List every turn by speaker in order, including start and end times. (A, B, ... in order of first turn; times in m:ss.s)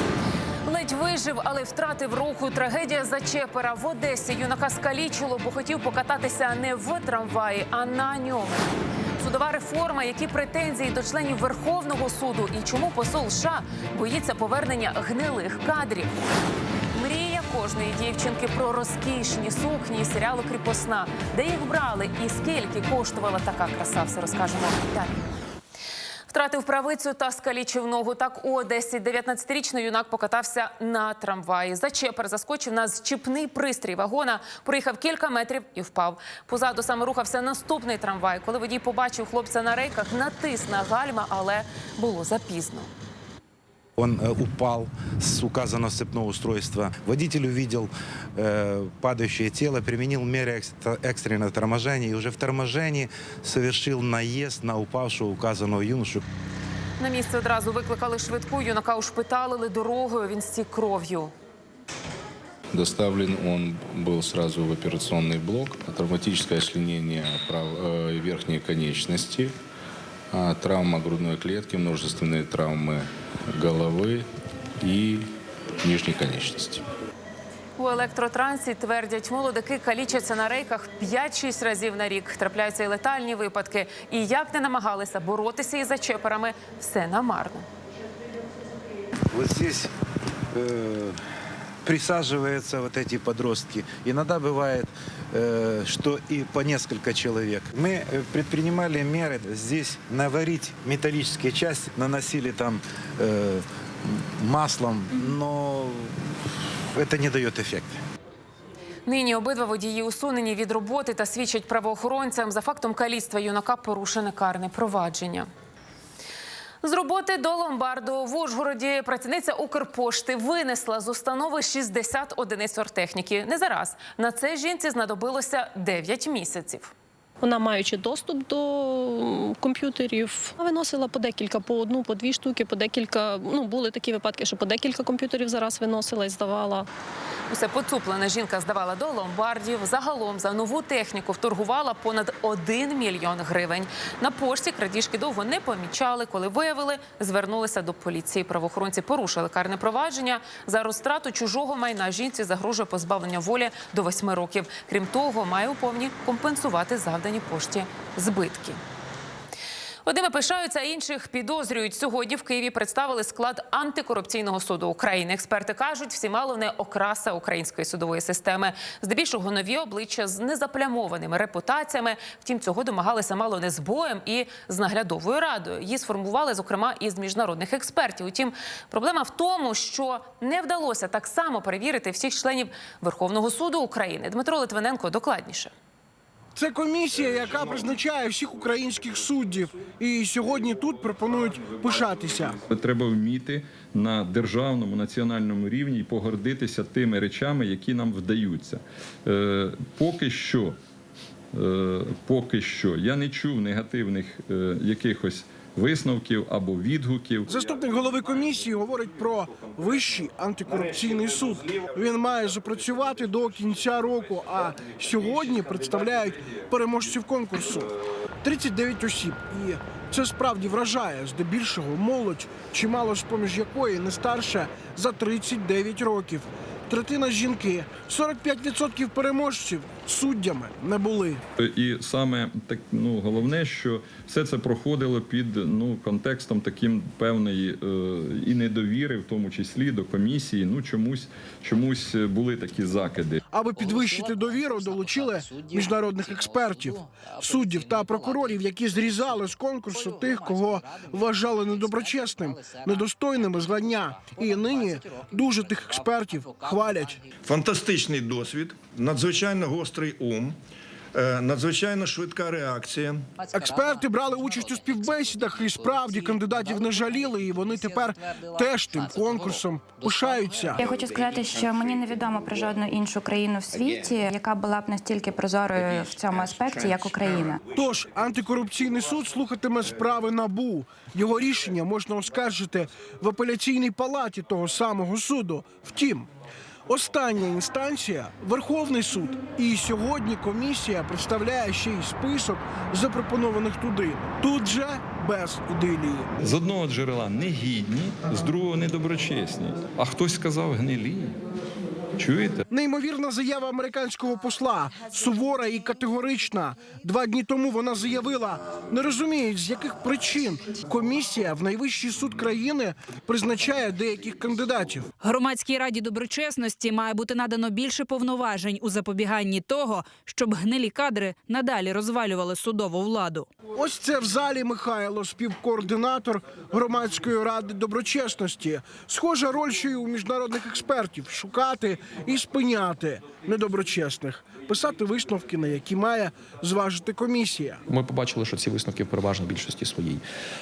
0:00.7-0:16.1 A
0:16.9-0:25.2 A
0:26.3-0:42.9 A
0:44.0-0:56.2 B
0:57.0-1:01.3 A
1:02.7-1:09.6 C
1:10.3-1:14.3 C
1:14.8-1:15.3 C
1:15.8-1:16.8 C
1:17.8-1:27.7 A
1:29.3-1:29.9 B
1:30.5-1:31.2 B
1:31.8-1:43.6 B
1:44.4-1:46.1 B
1:46.9-1:48.0 B
1:49.1-1:55.5 A
1:56.8-2:06.9 A
2:07.5-2:08.4 D
2:09.0-2:16.8 D
2:17.5-2:38.8 A
2:40.1-3:05.7 A
3:06.6-3:12.6 E
3:12.6-3:20.8 F
3:21.5-3:27.5 F
3:27.5-3:51.4 E
3:51.6-4:03.4 F
4:03.5-4:17.2 E
4:17.5-4:20.6 G
4:21.1-4:23.3 G
4:23.5-4:30.8 E
4:30.8-4:37.6 H
4:37.7-4:46.3 E
4:46.9-4:56.3 E
4:56.4-5:01.4 F
5:02.2-5:02.6 F
5:02.7-5:15.1 E
5:15.2-5:23.5 I
5:23.8-5:37.8 E
5:38.0-5:40.2 J